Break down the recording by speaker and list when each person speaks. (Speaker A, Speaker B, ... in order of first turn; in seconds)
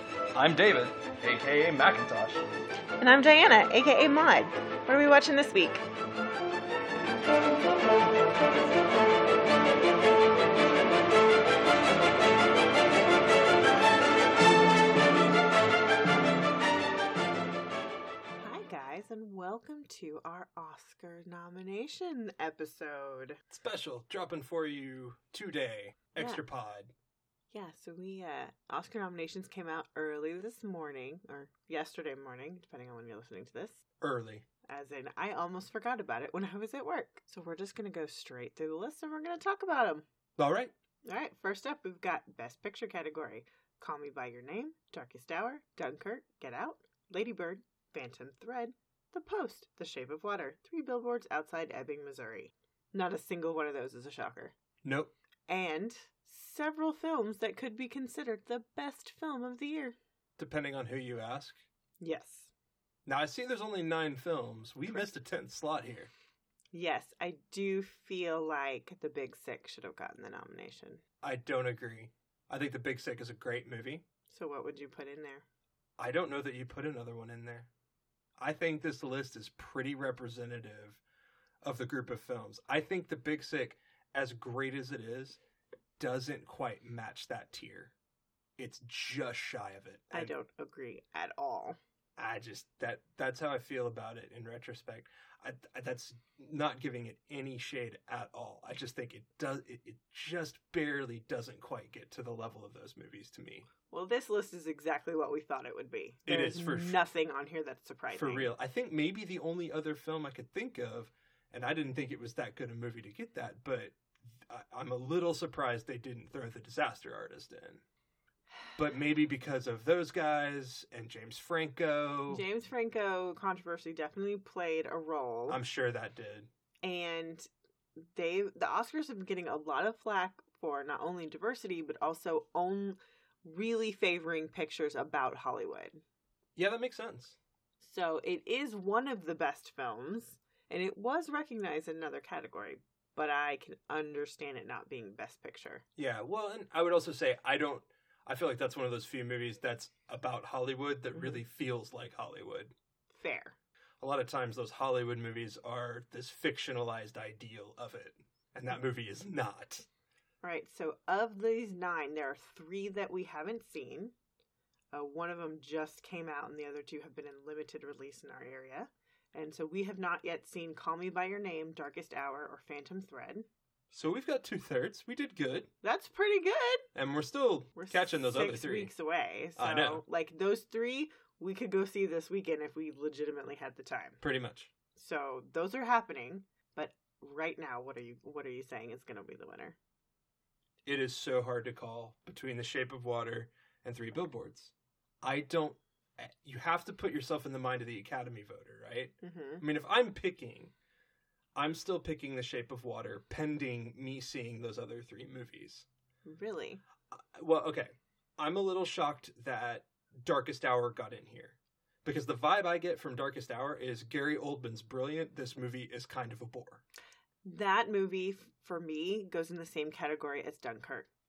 Speaker A: 0.3-2.4
Speaker B: 3.0-5.8, 18.4-23.4, 26.2-26.4, 27.5-33.8, 34.7-40.0, 41.0-54.5, 55.5-60.0, 62.0-62.5, 66.7-71.0, 74.3-75.4, 90.1-91.8, 103.9-108.5, 122.3-125.6, 126.8-127.5, 128.0-136.0, 137.8-145.8, 151.1-151.4, 153.1-153.6, 160.4-164.1, 164.9-173.5, 175.8-176.9, 177.8-184.2, 184.9-189.8, 199.2-199.6, 206.2-206.8, 217.4-221.1
Speaker C: 23.5-26.9, 34.0-34.5, 40.4-40.7, 54.8-55.1, 60.4-61.6, 63.0-66.1, 71.2-74.0, 76.0-77.7, 78.4-81.0, 81.6-85.4, 86.0-87.9, 88.6-90.3, 92.2-103.7, 106.2-107.0, 108.1-117.8, 118.8-122.4, 125.5-126.5, 136.6-137.4, 146.0-152.7, 154.0-159.9, 173.9-175.7, 176.9-178.9, 179.6-180.0, 184.2-184.7, 190.8-200.7, 201.6-205.9, 207.1-216.8